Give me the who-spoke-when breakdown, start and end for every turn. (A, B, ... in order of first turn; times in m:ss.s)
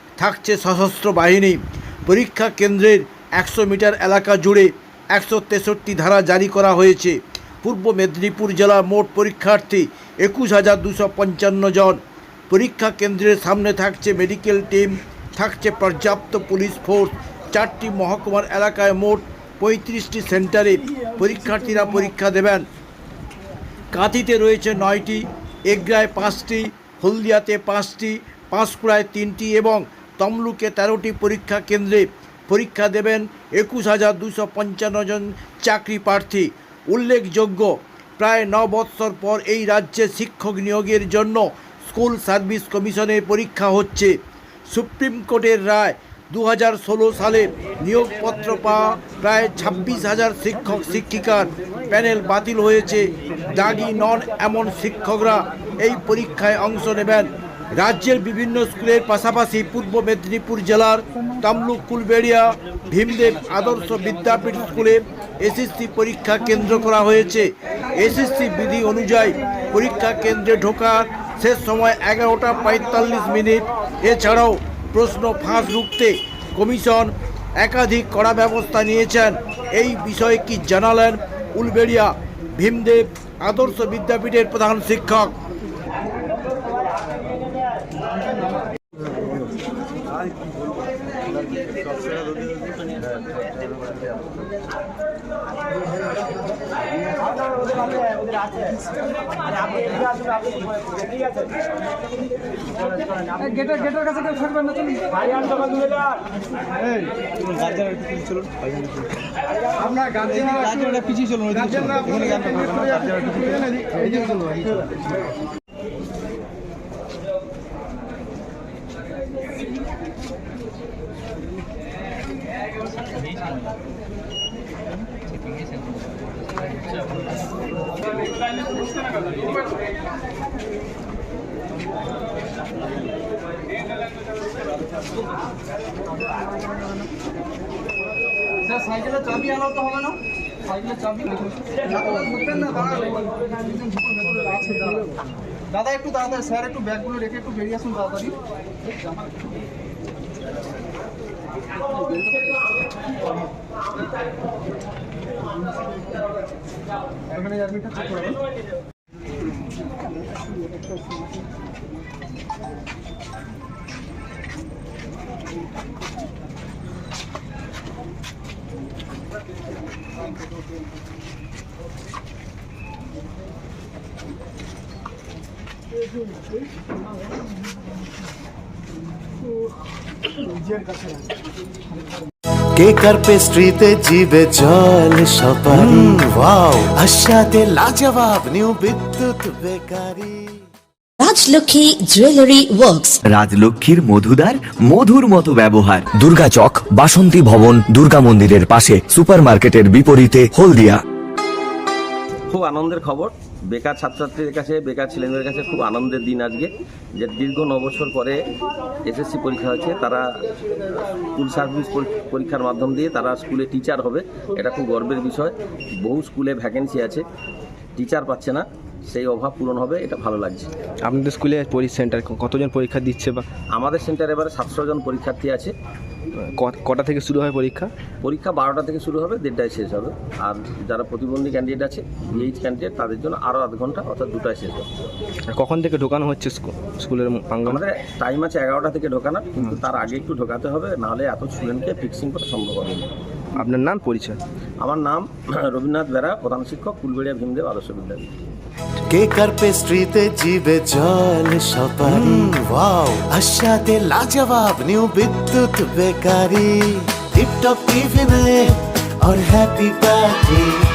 0:00.2-0:12.0 A
0:12.5-0:22.6 A
0:23.9-0:44.2 A
0:44.7-1:25.3 A
1:50.9-1:52.1 B
2:18.7-2:20.2 C
2:20.7-2:25.0 C
2:25.8-2:28.4 C
3:02.8-3:10.5 D
3:11.2-3:13.2 E
3:13.3-3:21.0 F
3:22.5-3:28.4 G
3:29.1-3:30.2 G
3:31.4-3:37.2 G
3:38.0-3:40.7 G
3:41.0-3:43.5 B
3:43.7-3:45.7 G
3:46.4-3:47.9 B
3:48.2-3:54.9 G
3:55.5-3:57.8 B
3:57.7-4:03.1 G
4:03.6-4:04.4 B
4:04.8-4:08.3 G
4:09.1-4:20.8 D
4:12.0-4:12.5 B